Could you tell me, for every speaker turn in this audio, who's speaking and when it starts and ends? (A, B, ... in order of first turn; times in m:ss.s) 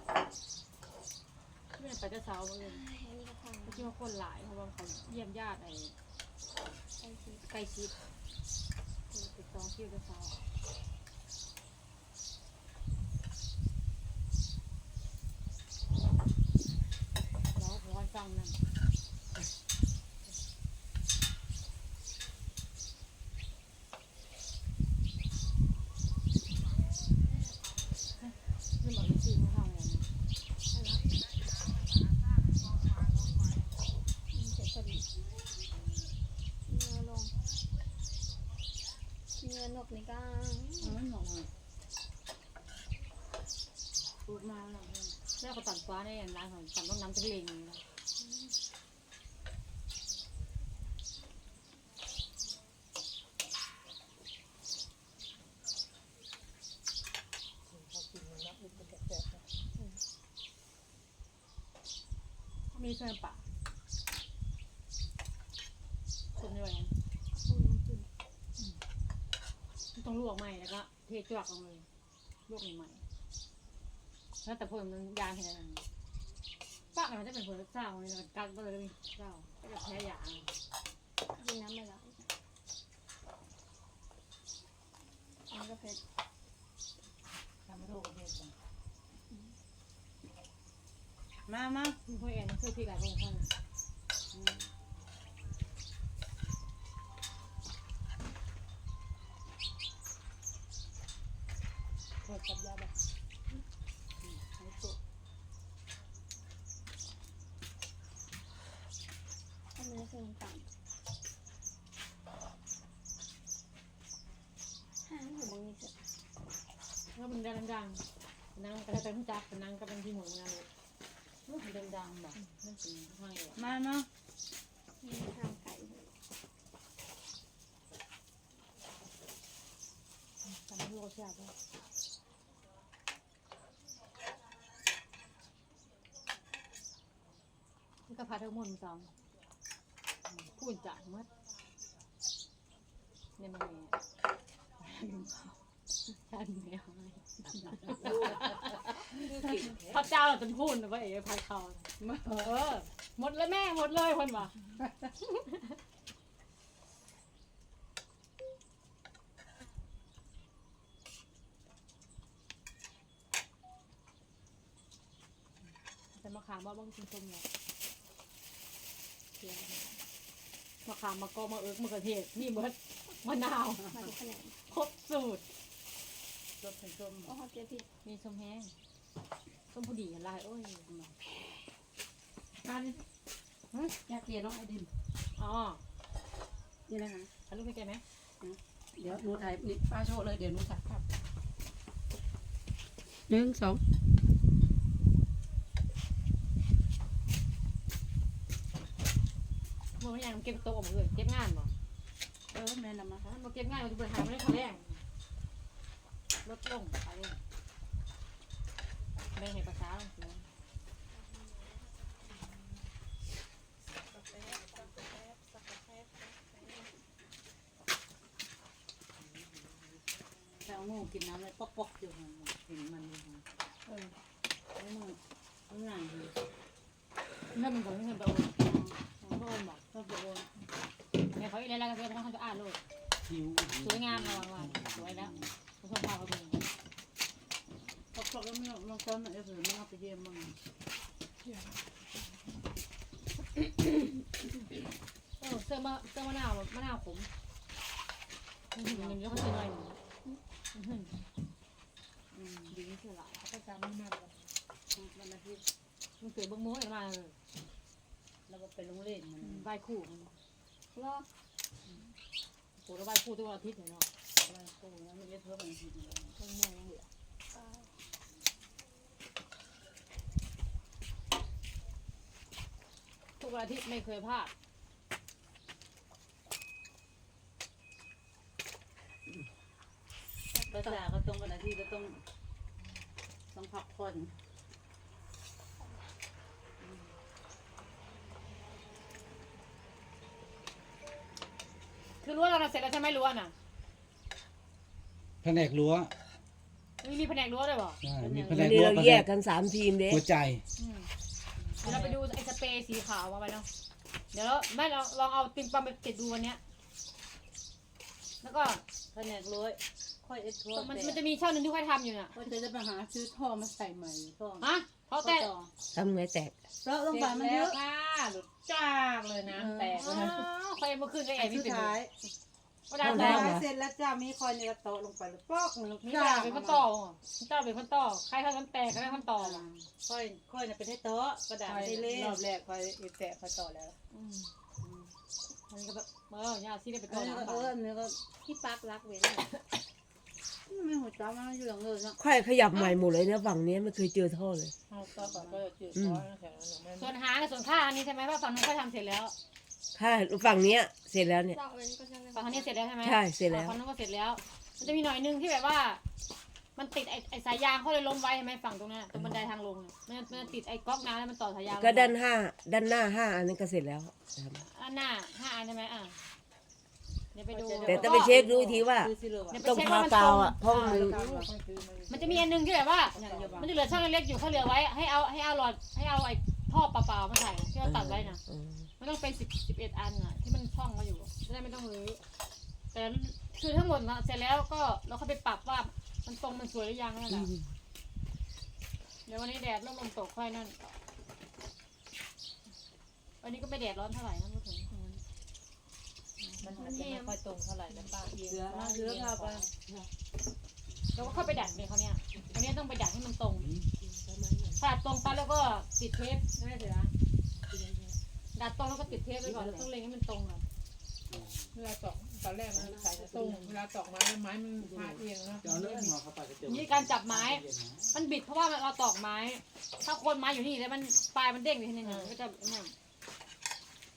0:01.8-0:02.8 A
0:02.6-0:03.9 B
0:03.6-0:06.0 A
0:07.0-0:07.4 B
0:07.5-0:07.9 A
0:09.1-0:10.4 A
0:17.6-0:18.6 A
0:28.8-0:30.1 A
0:30.7-0:31.1 B
0:34.3-0:35.1 B
0:36.7-0:37.4 B
0:39.4-0:41.0 B
0:40.8-0:41.5 C
0:44.3-0:45.2 C
0:45.4-0:47.8 A
0:57.7-0:59.5 D
1:02.7-1:03.5 A
1:06.4-1:06.9 A
1:07.4-1:08.1 B
1:10.0-1:11.9 A
1:12.5-1:13.0 A
1:14.4-1:15.8 A
1:16.9-1:20.5 A
1:21.3-1:22.3 B
1:25.5-1:26.0 B
1:27.7-1:28.5 C
1:31.5-1:32.0 C
1:32.1-1:33.5 A
1:34.3-1:34.7 C
1:42.3-1:42.8 D
1:44.2-1:45.0 C
1:49.8-1:50.7 B
1:55.0-1:55.9 B
1:57.2-1:58.0 A
1:58.6-2:00.7 A
2:01.5-2:02.4 C
2:02.4-2:03.6 A
2:03.6-2:04.1 C
2:05.0-2:06.1 B
2:10.5-2:11.5 A
2:18.1-2:19.1 A
2:20.5-2:21.3 A
2:23.4-2:24.0 A
2:24.8-2:25.5 A
2:26.1-2:28.8 A
2:27.8-2:30.0 C
2:29.6-2:34.6 A
2:32.0-2:32.6 C
2:35.3-2:35.8 A
2:46.1-2:47.5 A
2:49.4-2:49.7 A
2:50.8-2:53.9 A
2:53.9-2:54.6 B
2:54.7-2:55.4 A
2:56.6-2:57.4 C
2:57.2-2:57.9 B
2:58.0-2:58.7 A
2:59.7-3:00.9 A
3:00.9-3:01.1 C
3:02.6-3:03.0 C
3:04.0-3:04.9 C
3:05.4-3:05.8 A
3:06.9-3:07.3 C
3:07.5-3:08.0 A
3:08.4-3:11.0 C
3:13.3-3:13.8 B
3:13.3-3:13.8 C
3:20.0-3:21.7 A
3:22.5-3:23.2 C
3:23.2-3:25.0 A
3:26.4-3:27.4 A
3:29.4-3:30.5 A
3:40.6-3:43.4 C
3:43.9-3:44.2 A
3:44.8-3:45.2 C
3:45.7-3:46.3 C
3:47.5-3:48.6 A
3:48.6-3:49.1 C
3:49.2-3:49.8 A
3:49.9-3:50.5 C
3:51.3-3:52.8 A
3:53.3-3:55.5 E
3:53.8-3:56.6 A
3:58.1-4:00.6 C
4:01.5-4:01.8 D
4:05.4-4:07.3 A
4:08.8-4:10.0 A
4:08.9-4:09.2 C
4:10.7-4:11.1 A
4:12.3-4:12.7 C
4:12.7-4:13.4 A
4:13.4-4:14.6 D
4:14.9-4:15.6 C
4:16.2-4:17.4 A
4:18.5-4:19.7 C
4:19.4-4:20.3 A
4:20.9-4:21.3 B
4:22.8-4:24.1 A
4:24.4-4:26.4 C
4:26.4-4:27.0 D
4:27.5-4:27.9 B
4:33.4-4:34.5 A
4:40.5-4:41.0 B
4:40.7-4:42.2 C
4:43.5-4:44.3 C
4:52.2-4:53.5 A
4:55.4-4:56.1 E
4:57.0-4:58.0 A
4:58.0-4:59.3 E
4:58.2-4:59.0 C
4:58.5-5:00.2 F
5:00.1-5:00.6 E
5:00.8-5:01.1 A
5:01.7-5:02.2 C
5:01.8-5:03.7 A
5:04.3-5:06.6 A
5:08.4-5:08.8 A
5:09.1-5:11.2 C
5:10.7-5:12.4 A
5:12.3-5:14.6 C
5:14.6-5:15.5 A
5:15.2-5:15.7 C
5:15.9-5:16.6 F
5:16.8-5:17.8 C
5:17.1-5:20.4 D
5:19.5-5:20.4 C
5:20.0-5:22.0 A
5:21.4-5:22.1 C
5:22.9-5:23.6 A
5:23.0-5:23.6 F
5:23.0-5:26.9 C
5:26.0-5:29.7 A
5:29.0-5:32.4 C
5:31.7-5:33.9 D
5:34.1-5:34.5 A
5:34.8-5:35.1 C
5:35.7-5:37.7 A
5:37.1-5:39.5 C
5:40.7-5:42.2 C
5:42.2-5:44.7 F
5:44.9-5:47.1 D
5:45.1-5:45.6 C
5:46.0-5:46.2 F
5:47.0-5:49.3 A
5:49.9-5:51.6 F
5:51.5-5:52.8 B
5:52.3-5:56.0 A
5:53.0-5:53.8 F
5:56.8-6:02.1 A
5:59.1-5:59.4 F
6:01.8-6:04.6 F
6:04.7-6:06.2 A
6:07.3-6:08.4 A
6:07.5-6:10.2 C
6:07.9-6:09.1 F
6:09.5-6:11.1 A
6:09.6-6:11.1 F
6:10.7-6:11.5 C
6:10.8-6:12.5 D
6:12.1-6:18.4 A
6:13.1-6:13.8 C
6:13.2-6:13.6 D
6:17.8-6:18.8 F
6:19.0-6:22.2 A
6:22.9-6:27.5 A
6:27.3-6:27.6 F
6:29.3-6:30.9 A
6:33.4-6:34.9 A
6:36.4-6:36.7 A
6:36.6-6:39.7 D
6:36.8-6:37.4 B
6:38.1-6:39.7 C
6:41.2-6:43.7 A
6:41.2-6:41.7 C
6:43.6-6:43.9 E
6:44.3-6:44.7 C
6:44.8-6:47.1 A
6:48.6-6:50.6 A
6:49.1-6:49.9 C
6:51.3-6:51.7 E
6:51.7-6:56.1 D
6:52.7-6:53.8 C
6:54.8-6:55.2 C
6:55.6-6:58.2 E
6:56.6-7:02.9 A
7:02.0-7:02.3 D